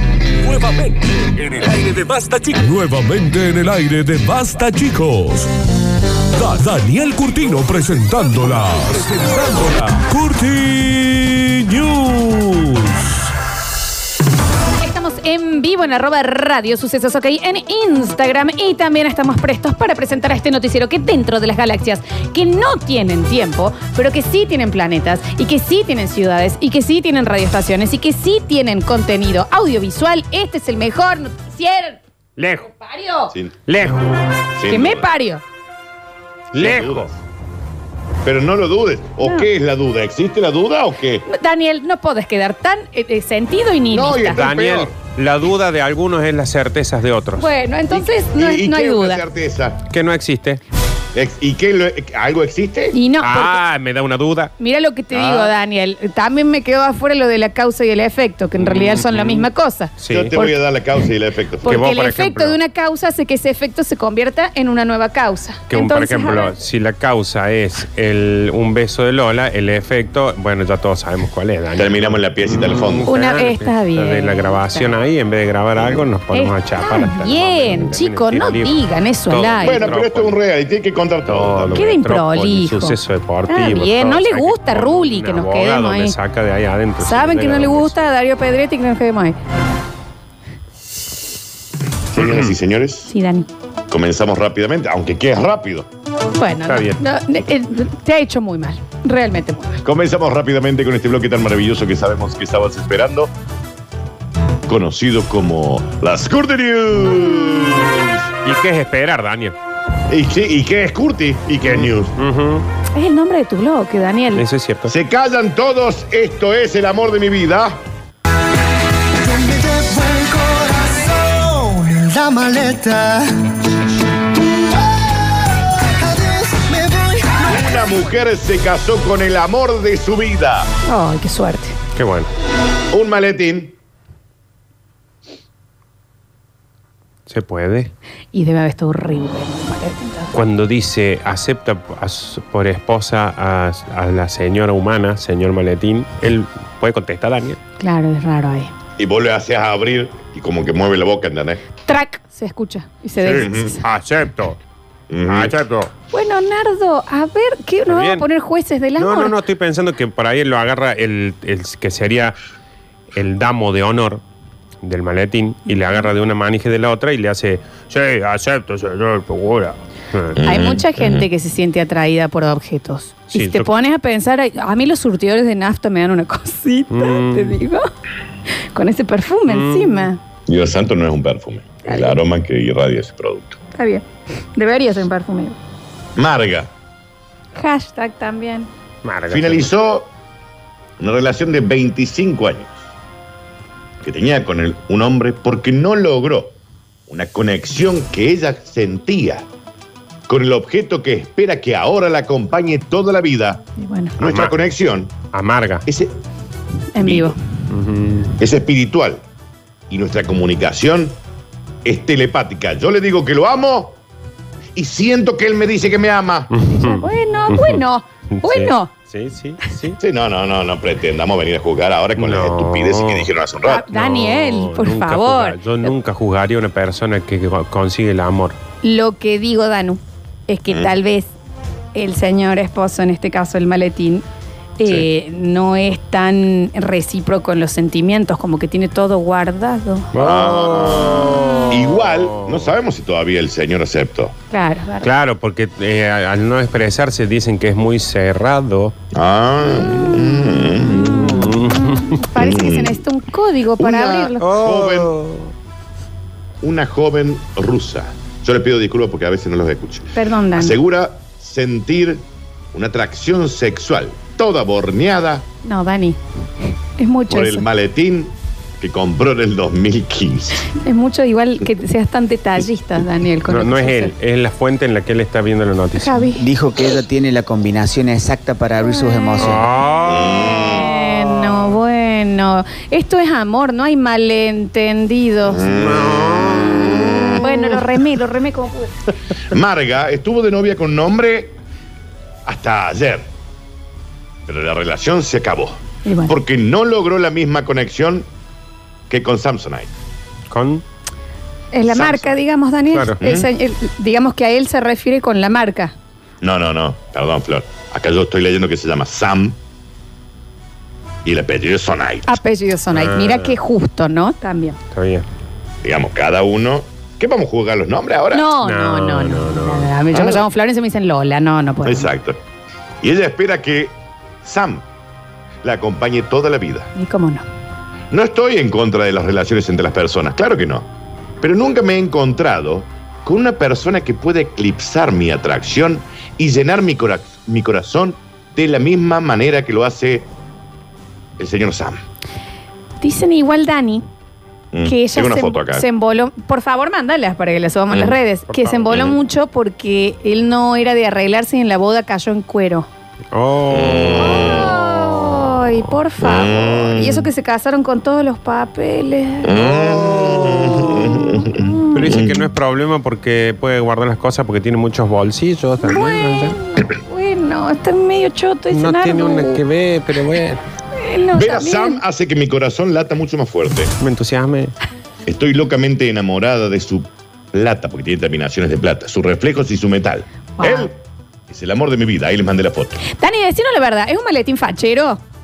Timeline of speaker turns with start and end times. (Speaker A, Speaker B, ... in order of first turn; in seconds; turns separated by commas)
Speaker A: 0.4-5.5, Speaker A: 6.3-13.1, Speaker B: 14.8-32.0, Speaker C: 32.4-32.7, Speaker B: 32.6-33.3, Speaker C: 33.6-34.1, Speaker D: 34.5-35.1, Speaker B: 34.7-35.4, Speaker C: 36.5-37.1, Speaker D: 36.5-37.2, Speaker D: 38.2-41.2, Speaker B: 39.2-39.5, Speaker B: 41.3-44.4, Speaker D: 43.9-44.9, Speaker C: 44.3-47.5, Speaker B: 47.4-49.2, Speaker D: 47.9-49.8, Speaker C: 49.9-50.6, Speaker D: 51.1-53.0, Speaker B: 52.9-53.6, Speaker C: 53.2-54.5, Speaker B: 54.6-61.0, Speaker D: 55.1-55.5, Speaker C: 58.6-60.4, Speaker D: 60.1-61.9, Speaker B: 61.6-66.5, Speaker C: 61.6-62.6, Speaker C: 65.7-78.7, Speaker D: 71.8-73.1, Speaker B: 73.1-74.9, Speaker D: 75.8-76.0, Speaker B: 76.3-79.9, Speaker C: 79.3-80.4, Speaker D: 79.6-81.8, Speaker C: 81.2-88.0, Speaker B: 81.7-86.1, Speaker B: 87.0-89.3, Speaker D: 92.1-93.1, Speaker C: 92.2-92.5, Speaker B: 93.1-93.5, Speaker D: 93.9-95.9, Speaker B: 96.3-99.8, Speaker C: 96.7-97.0, Speaker D: 99.8-103.3, Speaker D: 104.7-108.2, Speaker C: 108.4-109.5, Speaker D: 110.1-112.1, Speaker C: 111.6-112.7, Speaker B: 112.9-114.4, Speaker C: 114.3-114.9, Speaker D: 114.9-117.8, Speaker E: 119.2-123.3, Speaker E: 126.0-127.5, Speaker D: 127.4-130.7, Speaker B: 130.8-131.8, Speaker C: 131.9-132.3, Speaker D: 132.9-133.7, Speaker C: 137.3-137.9, Speaker B: 138.3-140.4, Speaker C: 140.3-147.6, Speaker B: 147.8-148.7, Speaker D: 149.0-151.6, Speaker B: 151.8-153.8, Speaker C: 153.2-154.6, Speaker D: 153.3-153.8, Speaker D: 155.1-155.5, Speaker C: 155.2-155.9, Speaker B: 156.1-159.3, Speaker C: 157.9-158.2, Speaker C: 159.0-162.3, Speaker C: 163.1-164.2, Speaker C: 164.8-170.4, Speaker D: 170.4-171.2, Speaker B: 170.4-177.8, Speaker C: 173.3-173.7, Speaker C: 176.9-177.6, Speaker B: 178.7-180.2, Speaker C: 179.5-180.1, Speaker D: 180.5-183.6, Speaker B: 181.8-182.2, Speaker B: 183.7-185.6, Speaker D: 186.2-186.7, Speaker B: 187.5-188.7, Speaker C: 189.0-189.7, Speaker D: 189.3-190.1, Speaker D: 191.0-192.8, Speaker D: 194.0-196.6, Speaker D: 197.1-199.4, Speaker D: 200.3-203.6, Speaker B: 203.8-204.2, Speaker C: 204.2-204.5, Speaker D: 204.2-205.1, Speaker C: 205.3-205.8, Speaker D: 205.9-206.1, Speaker B: 206.9-207.3, Speaker D: 207.0-207.3, Speaker C: 207.7-208.3, Speaker D: 208.4-209.2, Speaker D: 209.9-211.2, Speaker D: 211.8-213.9, Speaker D: 214.8-216.5, Speaker C: 216.5-217.8, Speaker B: 216.7-218.9, Speaker C: 218.3-220.0, Speaker D: 220.0-223.9, Speaker C: 222.2-223.3, Speaker B: 223.6-225.9, Speaker C: 223.9-228.6, Speaker B: 228.8-231.3, Speaker D: 230.7-230.9, Speaker B: 231.9-234.2, Speaker B: 234.8-240.1, Speaker C: 240.1-242.7, Speaker D: 240.1-244.3, Speaker B: 244.5-245.1, Speaker C: 245.0-248.9, Speaker D: 249.1-251.3, Speaker C: 251.2-252.2, Speaker B: 252.1-254.4, Speaker D: 252.3-253.0, Speaker D: 253.8-255.1, Speaker C: 254.4-255.5, Speaker D: 256.6-265.4, Speaker B: 260.1-260.8, Speaker B: 265.6-266.2, Speaker B: 266.9-267.6, Speaker D: 267.3-270.7, Speaker B: 270.7-274.1, Speaker C: 273.4-276.3, Speaker B: 275.9-276.4, Speaker F: 276.4-279.7, Speaker B: 278.9-279.5, Speaker C: 279.4-281.6, Speaker D: 280.0-280.9, Speaker B: 280.5-285.8, Speaker D: 285.4-287.5, Speaker C: 285.7-287.8, Speaker B: 287.0-289.0, Speaker D: 289.5-291.5, Speaker D: 292.4-293.3, Speaker D: 294.5-298.2, Speaker B: 296.0-296.4, Speaker D: 299.1-299.9, Speaker C: 300.5-300.8, Speaker B: 301.7-305.9, Speaker D: 301.9-302.4, Speaker D: 303.2-303.5, Speaker D: 306.4-309.6, Speaker D: 311.2-312.4, Speaker B: 312.3-314.8, Speaker C: 312.9-313.6, Speaker C: 314.9-315.2, Speaker D: 315.8-318.5, Speaker B: 318.3-322.1, Speaker C: 318.6-319.9, Speaker D: 320.1-320.4, Speaker D: 321.8-322.4, Speaker D: 323.0-324.8, Speaker D: 325.6-326.9, Speaker B: 326.9-327.4, Speaker D: 328.1-330.9, Speaker D: 331.4-340.3, Speaker D: 341.4-342.0, Speaker B: 343.0-344.0, Speaker D: 344.7-345.8, Speaker B: 344.8-352.9, Speaker D: 347.9-348.2, Speaker C: 348.5-348.9, Speaker D: 348.9-349.2, Speaker C: 353.3-354.7, Speaker D: 353.7-354.8, Speaker B: 354.2-362.1, Speaker D: 356.2-357.3, Speaker D: 359.4-362.4, Speaker C: 361.9-366.6, Speaker B: 365.8-369.6, Speaker C: 368.7-370.6, Speaker B: 370.9-372.0, Speaker D: 371.3-373.9, Speaker C: 374.0-374.7, Speaker D: 375.2-380.9, Speaker B: 380.6-380.9, Speaker D: 381.5-383.0, Speaker B: 383.0-385.2